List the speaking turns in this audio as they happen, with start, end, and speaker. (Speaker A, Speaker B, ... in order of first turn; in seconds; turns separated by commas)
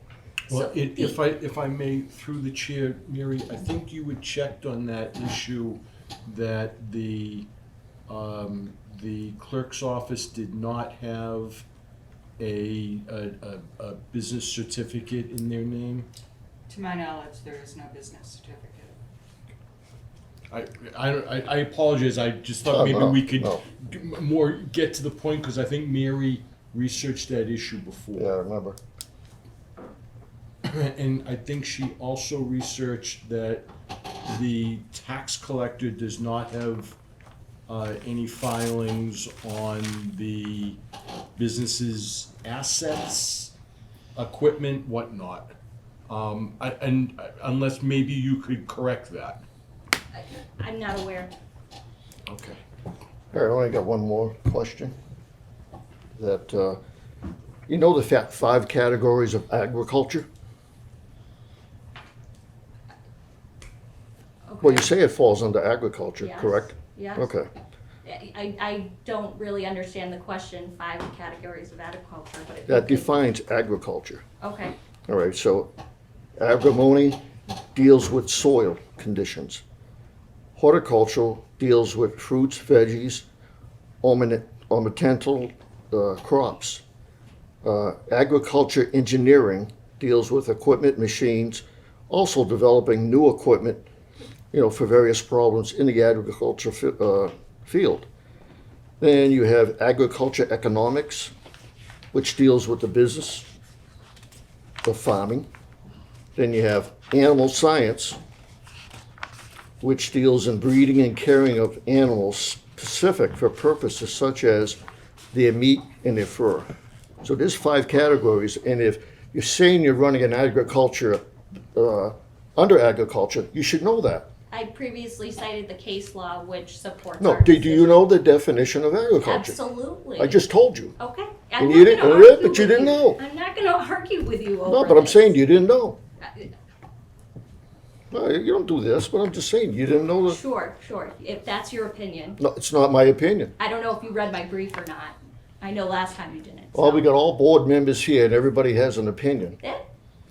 Speaker A: 0.5-7.5, Speaker B: 0.5-1.2, Speaker A: 8.1-11.6, Speaker A: 12.4-16.1, Speaker C: 16.7-19.0, Speaker A: 20.5-28.3, Speaker D: 22.7-23.6, Speaker D: 28.1-28.8, Speaker A: 30.6-33.7, Speaker A: 34.2-37.0, Speaker A: 37.7-40.8, Speaker A: 41.4-43.5, Speaker A: 44.2-45.5, Speaker A: 46.1-49.4, Speaker B: 50.1-51.3, Speaker A: 52.3-52.6, Speaker D: 53.3-55.0, Speaker D: 56.2-56.8, Speaker D: 57.7-60.3, Speaker B: 64.5-64.9, Speaker D: 64.6-67.5, Speaker B: 66.2-67.3, Speaker B: 68.0-73.2, Speaker D: 72.7-74.2, Speaker B: 74.4-74.8, Speaker D: 75.1-75.7, Speaker D: 76.4-77.2, Speaker D: 77.7-79.6, Speaker D: 80.6-83.2, Speaker D: 84.0-86.8, Speaker D: 87.6-93.9, Speaker D: 94.5-98.1, Speaker D: 99.0-101.3, Speaker D: 102.1-103.5, Speaker D: 104.8-105.5, Speaker D: 106.4-108.2, Speaker D: 109.8-114.8, Speaker D: 115.3-116.7, Speaker D: 117.2-121.2, Speaker D: 121.8-124.3, Speaker B: 124.5-128.1, Speaker D: 127.2-129.6, Speaker B: 129.2-130.4, Speaker D: 130.2-130.9, Speaker B: 131.0-135.4, Speaker D: 131.6-133.2, Speaker D: 134.7-136.0, Speaker B: 136.2-136.5, Speaker D: 138.1-140.4, Speaker B: 140.3-142.4, Speaker D: 142.4-143.5, Speaker B: 143.6-147.1, Speaker D: 146.7-149.6